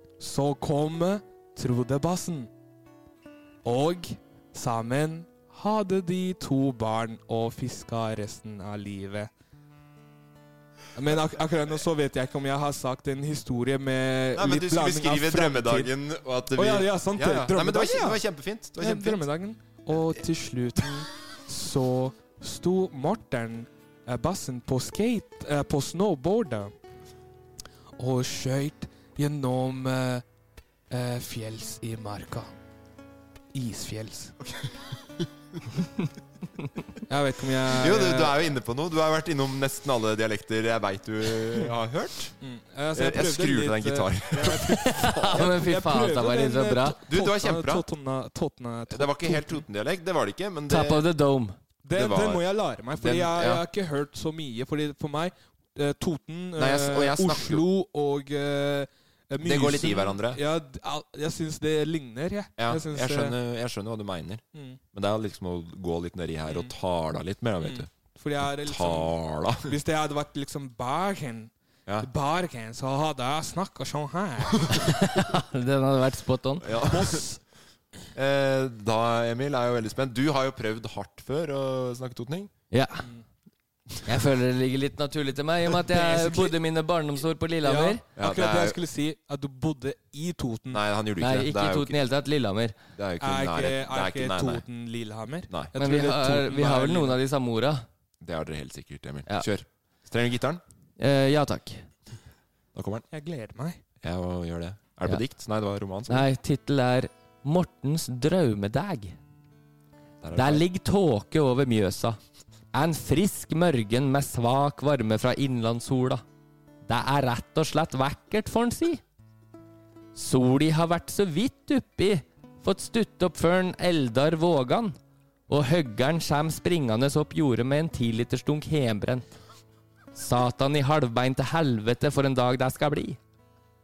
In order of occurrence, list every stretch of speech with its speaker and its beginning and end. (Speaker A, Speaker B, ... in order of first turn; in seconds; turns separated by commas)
Speaker A: 0.2-2.5, Speaker A: 3.6-9.3, Speaker A: 10.9-15.9, Speaker B: 14.3-19.3, Speaker A: 16.5-18.2, Speaker A: 18.8-26.7, Speaker A: 28.0-30.2, Speaker A: 30.9-32.5, Speaker A: 33.5-34.6, Speaker A: 37.1-38.4, Speaker B: 37.8-42.3, Speaker A: 42.4-49.6, Speaker B: 42.9-45.4, Speaker C: 44.8-47.0, Speaker B: 47.1-47.9, Speaker B: 48.9-51.0, Speaker C: 50.7-51.5, Speaker A: 51.8-63.4, Speaker B: 51.9-52.4, Speaker B: 53.0-53.6, Speaker B: 56.6-57.6, Speaker B: 59.4-60.4, Speaker B: 62.6-64.4, Speaker A: 64.5-64.8, Speaker B: 64.9-67.9, Speaker A: 67.6-74.8, Speaker B: 68.6-69.8, Speaker C: 74.7-76.7, Speaker B: 76.6-77.2, Speaker A: 76.8-77.4, Speaker B: 78.1-82.5, Speaker C: 82.7-83.0, Speaker C: 84.0-88.0, Speaker A: 85.9-86.6, Speaker A: 87.6-90.8, Speaker B: 88.2-88.8, Speaker B: 90.7-92.0, Speaker C: 91.2-92.7, Speaker B: 93.0-94.6, Speaker A: 93.2-97.2, Speaker C: 95.8-97.8, Speaker B: 98.2-100.6, Speaker C: 101.0-101.9, Speaker B: 102.7-103.0, Speaker A: 103.1-103.8, Speaker B: 104.0-106.3, Speaker C: 106.1-109.2, Speaker B: 110.2-110.6, Speaker C: 110.3-112.2, Speaker C: 112.7-116.2, Speaker C: 116.9-119.0, Speaker C: 120.1-125.0, Speaker C: 125.5-129.3, Speaker C: 130.1-133.2